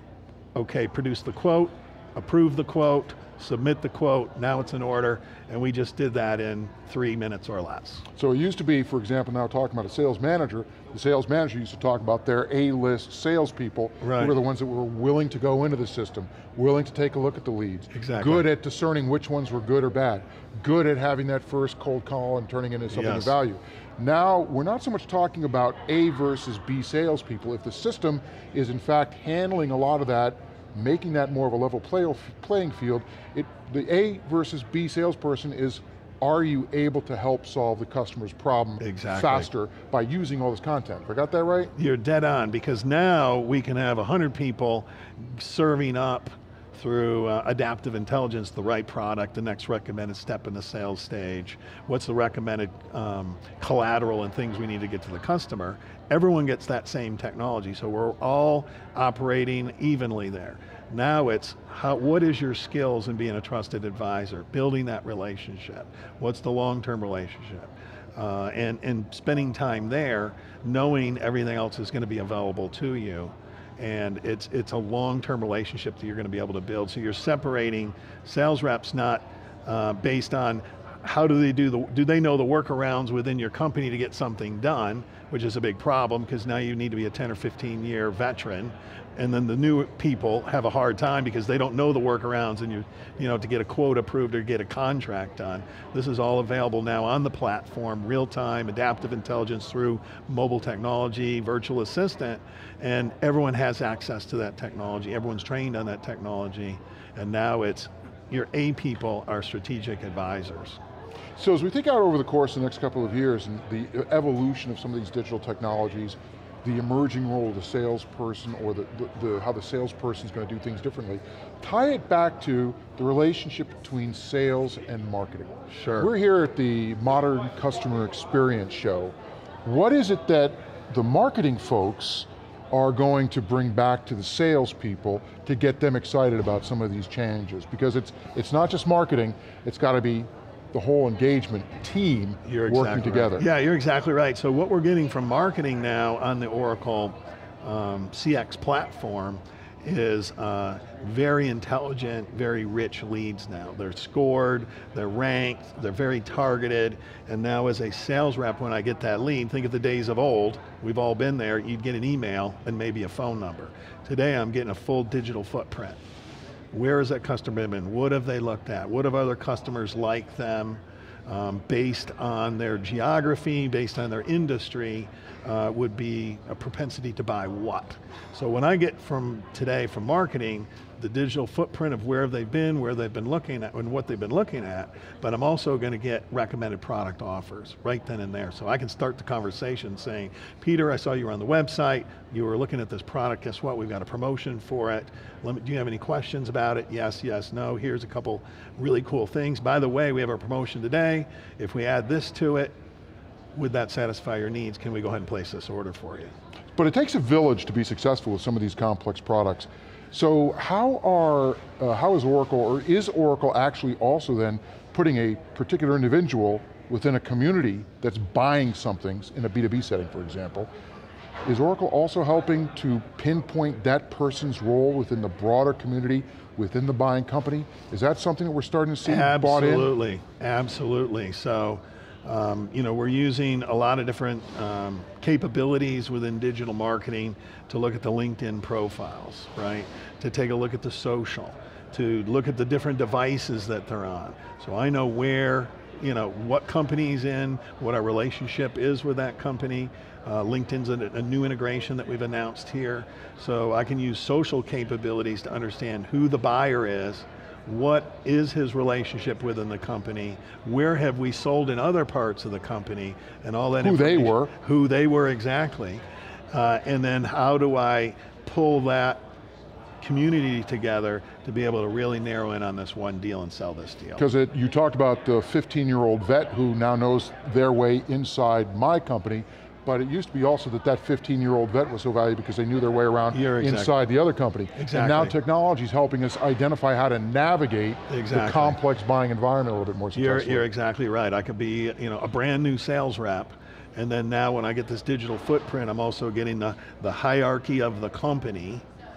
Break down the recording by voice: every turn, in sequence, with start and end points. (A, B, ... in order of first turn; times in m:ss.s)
0:00.6-0:08.0 A
0:08.2-0:41.7 B
0:14.0-0:14.4 A
0:17.9-0:18.5 A
0:22.9-0:23.4 A
0:38.8-0:39.5 A
0:41.8-1:50.8 A
1:51.4-2:23.5 B
2:05.7-2:06.1 A
2:22.4-2:46.0 A
2:46.7-3:22.7 A
3:23.5-3:26.3 A
3:26.8-3:40.7 B
3:41.4-3:49.9 B
3:49.0-4:29.2 A
4:23.8-4:24.5 B
4:30.0-4:34.3 A
4:34.2-4:50.7 B
4:43.3-4:44.0 A
4:44.8-4:45.4 A
4:48.1-4:48.8 A
4:50.1-4:58.8 A